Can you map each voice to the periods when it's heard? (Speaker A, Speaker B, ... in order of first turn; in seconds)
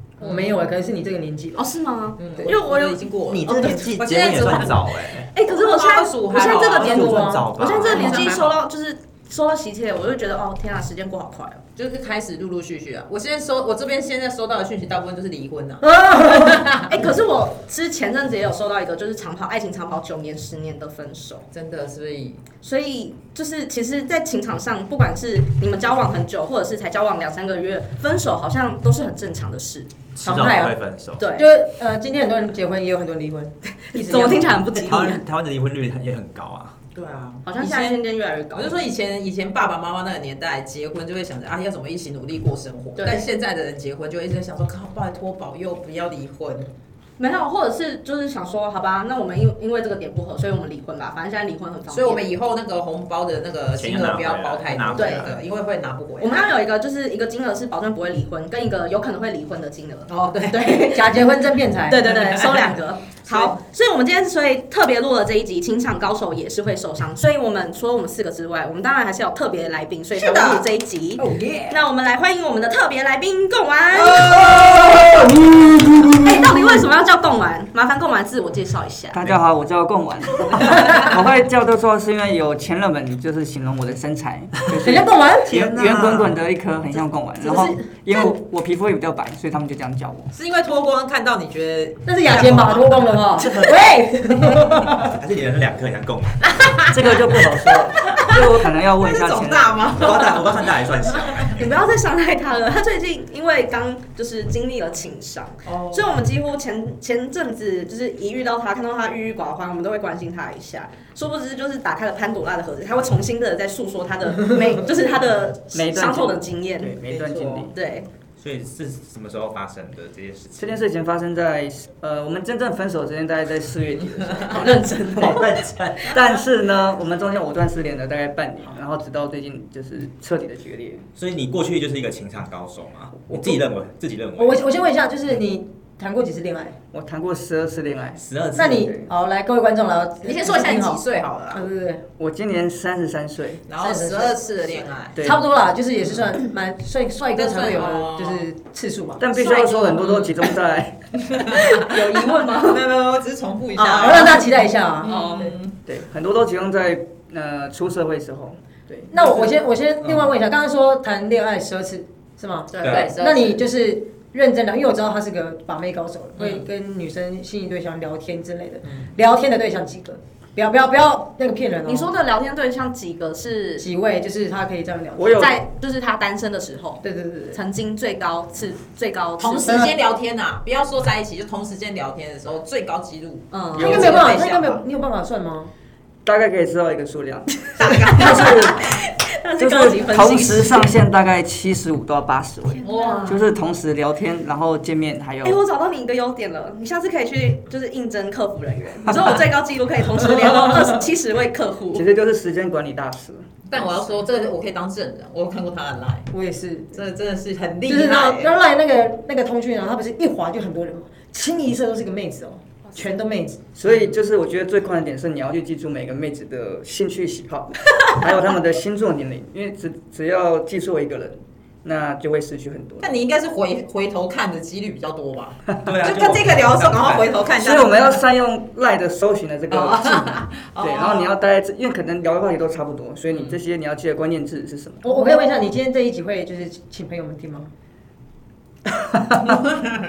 Speaker A: 0.2-1.6, 6.3-7.5, 15.8-16.7, 30.2-30.8, 31.3-34.7, 60.7-62.1, 71.2-71.8, 74.0-76.8, 80.8-81.1, 84.8-85.6, 87.4-88.3, 92.0-95.1, 134.4-136.8, 138.5-142.0, 143.8-150.1, 153.8-155.5, 159.1-172.1, 173.8-175.5, 177.0-177.6, 179.7-179.9, 183.8-185.7, 206.3-207.0, 207.9-213.7, 235.0-237.7
Speaker B: 0.2-0.6, 2.2-4.8, 5.3-8.6, 11.8-16.8, 21.5-22.4, 36.9-38.0, 38.5-46.7, 51.9-56.5, 60.1-60.8, 62.0-62.8, 63.3-63.5, 70.2-70.6, 74.3-74.8, 85.5-86.3, 90.3-93.7, 96.4-100.5, 105.7-106.1, 117.0-117.7, 140.2-141.7, 143.7-145.2, 147.3-148.4, 150.0-150.3, 151.3-154.5, 155.0-155.7, 159.2-159.5, 166.4-166.6, 179.4-184.8, 187.8-188.8, 192.8-193.4, 203.7-206.3, 206.9-208.5, 223.0-228.2, 229.7-231.3, 233.3-233.6
Speaker C: 1.6-4.7, 5.3-11.6, 16.7-21.5, 22.6-29.9, 31.2-31.5, 33.9-35.2, 37.4-38.8, 43.0-43.2, 47.2-52.3, 54.9-55.3, 56.2-61.3, 61.8-74.5, 76.2-79.2, 101.4-117.0, 117.7-118.1, 124.5-125.6, 151.5-152.8, 155.0-155.5, 162.7-163.7, 171.8-173.9, 175.3-179.8, 183.5-184.2, 187.8-190.9, 192.7-193.4, 195.4-202.0
Speaker D: 3.3-5.3, 6.5-8.3, 30.1-31.3, 34.8-36.8, 53.7-55.4, 93.4-93.8, 94.9-96.6, 100.0-101.7, 118.4-120.8, 125.2-126.2, 131.2-134.6, 138.2-138.8, 162.8-163.1, 225.8-227.4
Speaker E: 79.1-90.3, 96.9-100.2, 115.7-117.7, 120.6-124.9, 126.1-131.1, 133.3-133.6, 136.9-139.1, 142.2-143.6, 145.1-145.4, 149.2-151.5, 155.8-159.1, 175.2-175.6, 183.8-184.2, 186.2-188.9, 189.6-195.6, 201.9-203.5, 213.8-223.1, 227.6-235.1